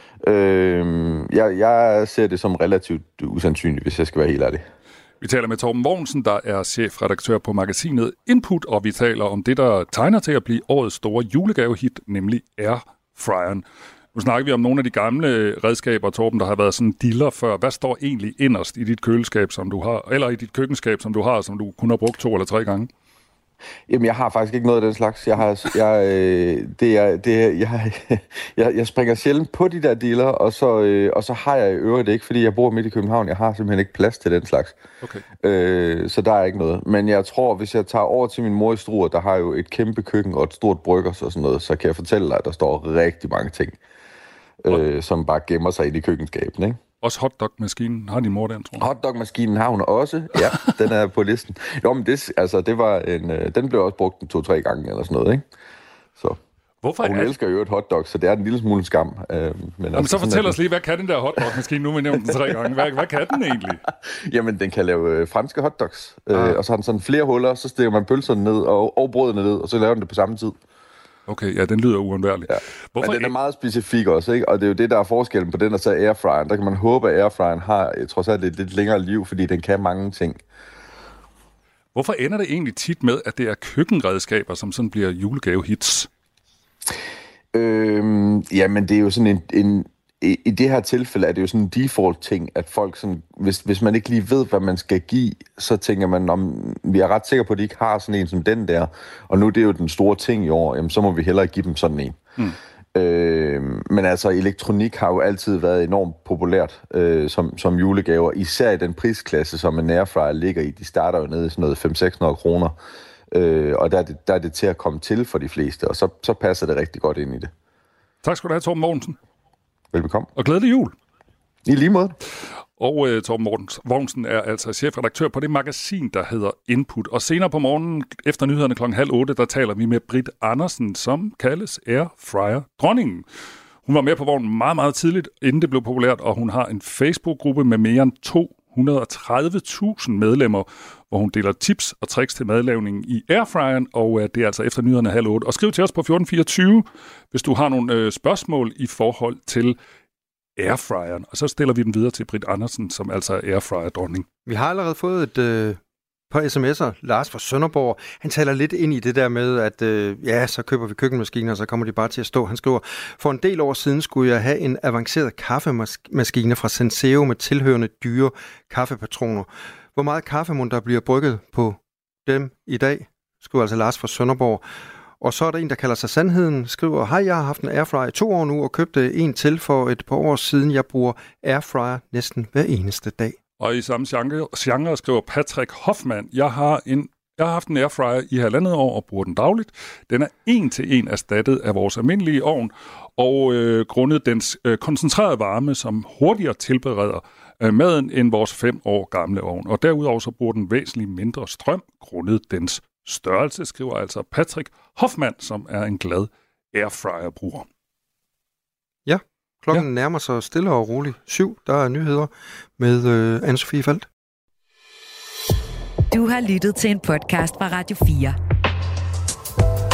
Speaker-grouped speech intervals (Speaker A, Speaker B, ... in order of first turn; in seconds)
Speaker A: 0.2-4.7, 23.9-34.8, 35.4-43.8, 44.6-46.8, 48.8-55.4, 57.0-60.6, 64.2-70.6, 72.5-80.4, 87.5-102.2, 103.0-112.8, 113.3-117.5, 119.9-120.3, 121.7-122.2
Speaker B: 5.2-22.9, 47.0-48.9, 50.4-50.7, 56.8-57.4, 59.9-63.8, 66.3-66.6, 71.3-73.3, 81.9-86.1, 118.2-119.2, 120.3-121.0, 122.8-133.3, 133.9-149.8, 150.6-154.3, 183.6-207.7
Speaker C: 154.5-155.8, 156.3-174.6, 175.2-183.4, 209.1-214.1
Speaker D: 216.1-218.4